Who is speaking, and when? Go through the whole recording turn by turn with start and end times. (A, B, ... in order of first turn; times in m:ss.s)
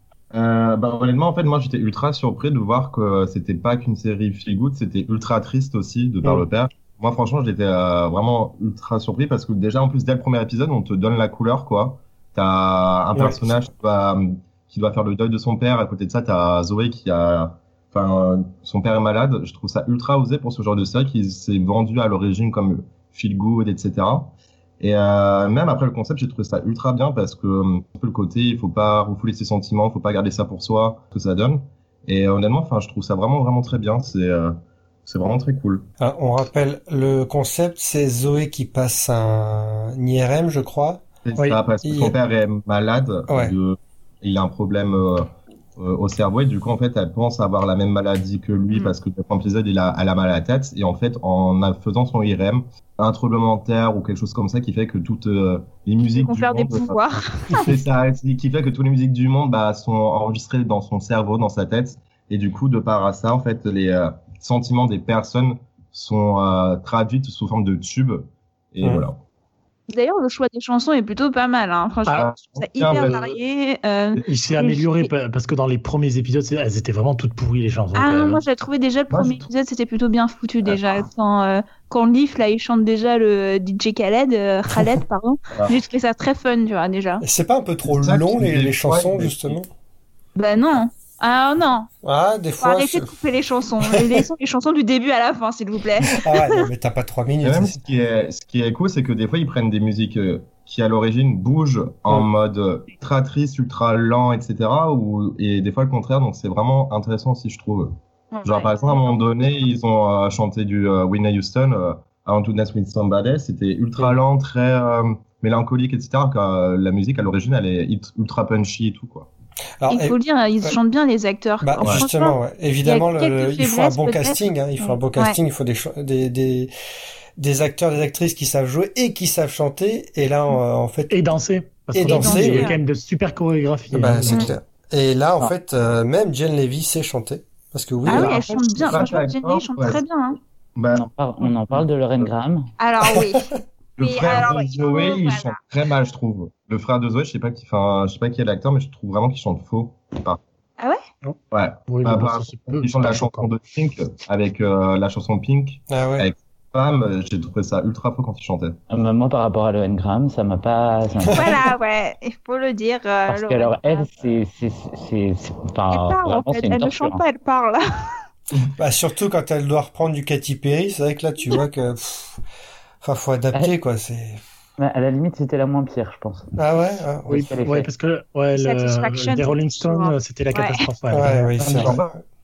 0:00.3-0:35.8 A
0:13.1-0:13.7 B
0:36.0-0:41.0 B
0:41.2-1:09.2 A
0:41.4-0:41.6 C
0:41.8-0:42.2 B
0:43.3-0:43.5 B
0:56.2-0:57.7 D
1:09.9-1:15.1 D
1:12.1-1:13.3 A
1:14.2-1:18.4 C
1:17.9-1:27.2 D
1:19.1-1:19.4 A
1:27.2-1:29.7 B
1:27.9-1:29.6 A
1:30.4-1:31.9 D
1:32.0-1:33.1 B
1:32.6-1:36.6 D
1:33.8-1:34.2 B
1:36.0-1:37.8 B
1:37.4-1:59.3 A
1:48.3-1:49.2 D
1:59.8-2:00.8 B
1:59.9-2:05.4 D
2:01.6-2:06.7 B
2:07.4-2:11.2 B
2:11.1-2:14.5 C
2:11.9-2:12.7 B
2:12.0-2:12.8 D
2:13.9-2:19.1 B
2:18.0-2:20.4 D
2:18.1-2:20.0 A
2:20.8-2:21.0 A
2:20.9-2:22.7 E
2:22.8-2:25.6 D
2:23.0-2:23.6 B
2:24.0-2:30.4 A
2:31.5-2:38.8 A
2:31.9-2:33.5 C
2:35.9-2:36.3 B
2:38.9-2:41.6 E
2:41.3-2:41.5 B
2:41.3-2:44.1 D
2:43.3-2:47.2 E
2:45.9-2:48.2 D
2:48.8-2:52.4 B
2:53.0-2:54.4 B
2:54.8-2:56.6 E
2:56.6-2:57.5 B
2:57.3-3:01.8 C
2:57.4-2:57.9 E
2:58.6-3:00.8 D
3:01.1-3:02.2 B
3:01.6-3:02.1 A